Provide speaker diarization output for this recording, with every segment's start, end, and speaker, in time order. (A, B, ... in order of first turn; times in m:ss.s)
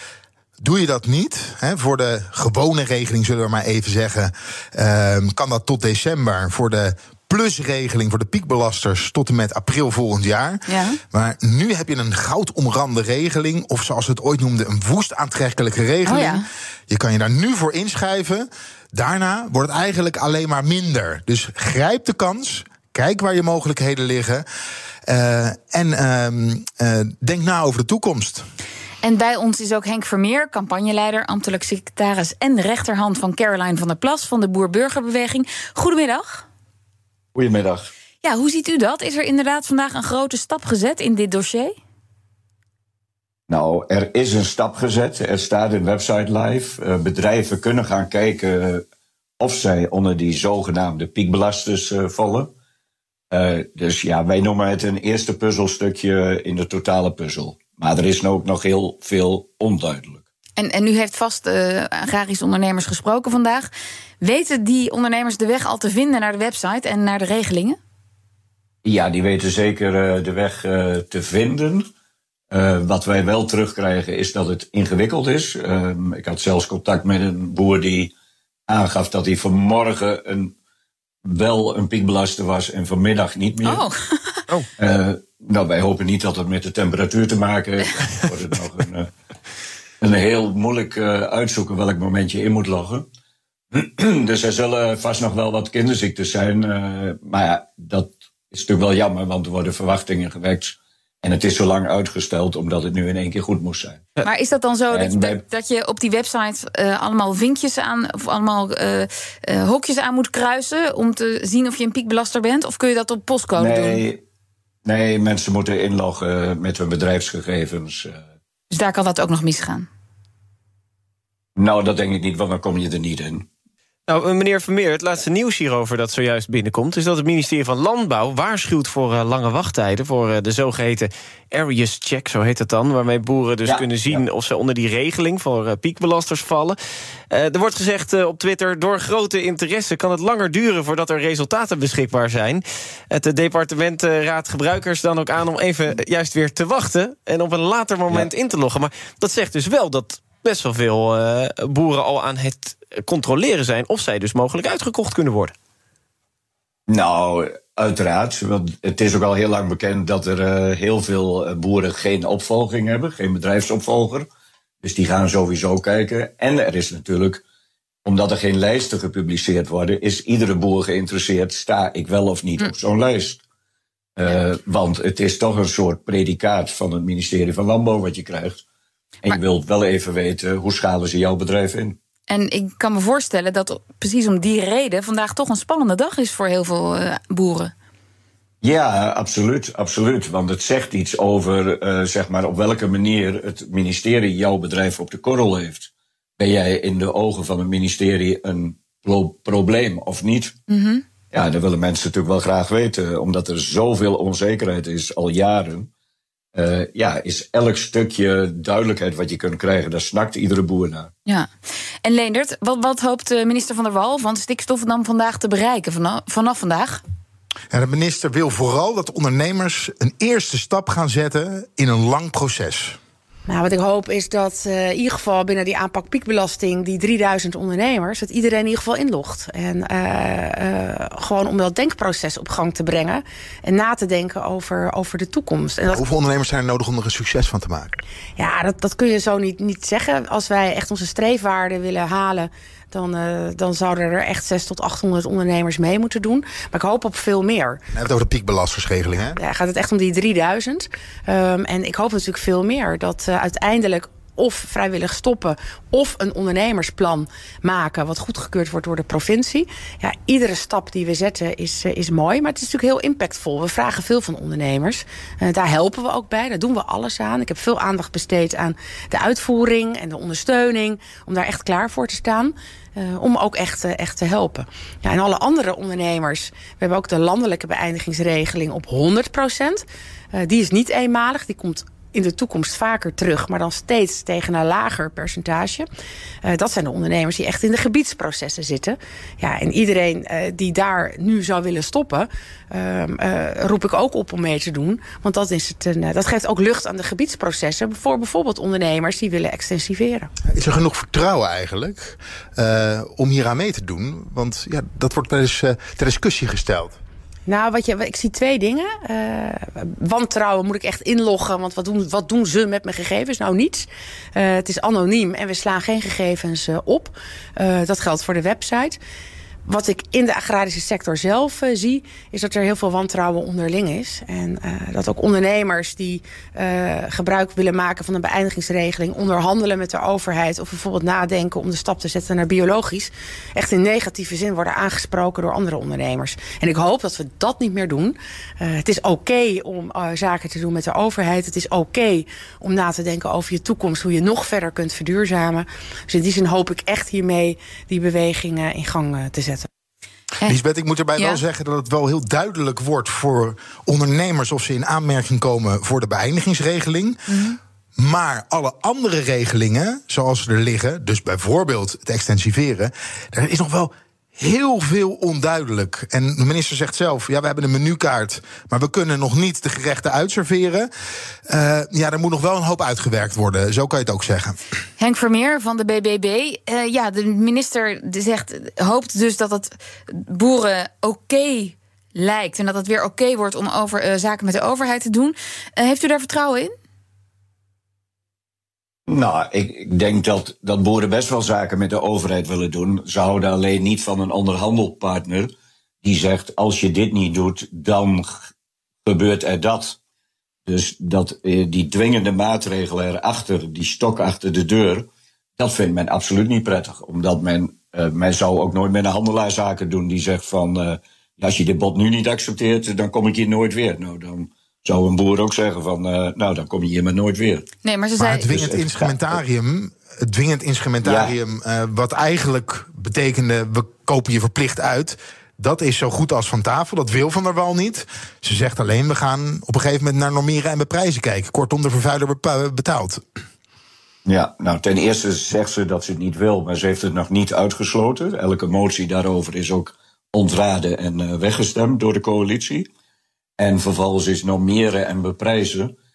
0:00.6-0:24.4 A
0:10.7-0:11.0 B
0:16.0-0:16.4 B
0:25.1-0:28.4 A
0:29.0-0:36.5 B
0:37.4-0:37.9 C
0:38.2-0:41.8 B
0:43.5-0:48.8 C
0:49.4-0:52.5 C
0:53.3-1:00.2 C
1:00.6-1:07.8 B
1:08.8-1:11.9 C
1:12.5-1:18.1 C
1:18.7-1:20.6 C
1:21.2-1:23.8 C
1:23.6-1:24.4 B
1:24.8-1:29.1 C
1:30.0-1:33.1 C
1:33.7-1:44.0 C
1:44.2-1:54.0 B
1:44.9-1:45.4 C
1:53.6-1:54.2 C
1:54.8-1:58.2 C
1:58.7-1:59.9 B
2:01.6-2:03.5 C
2:04.1-2:16.8 D
2:13.6-2:14.2 C
2:17.3-2:35.5 D
2:36.9-2:44.3 C
2:44.8-2:47.4 C
2:48.0-2:53.4 C
2:54.2-2:58.6 C
2:59.2-3:02.0 C
3:02.3-3:07.7 B
3:08.6-3:20.6 C
3:20.7-3:21.0 B
3:21.3-3:25.9 C
3:26.6-3:31.1 C
3:32.0-3:37.0 B
3:37.7-3:43.0 A
3:43.5-3:56.0 E
3:55.9-3:58.0 A
3:58.4-4:07.8 E
4:07.9-4:09.4 A
4:09.4-4:45.9 E
4:46.4-5:00.3 E
5:00.5-5:07.0 A
5:07.5-5:19.0 E
5:19.7-5:49.7 E
5:50.5-5:57.2 A
5:57.3-5:57.6 B
5:58.0-6:10.9 A
6:11.5-6:14.6 A
6:15.0-6:26.7 B
6:29.1-6:35.5 C
6:36.0-6:38.5 C
6:39.0-6:40.0 C
6:40.7-6:45.1 C
6:45.6-6:57.7 C
6:57.8-6:58.5 B
6:58.2-7:13.2 A
6:58.5-6:59.4 C
7:01.0-7:01.4 C
7:14.3-7:22.9 C
7:23.6-7:26.0 C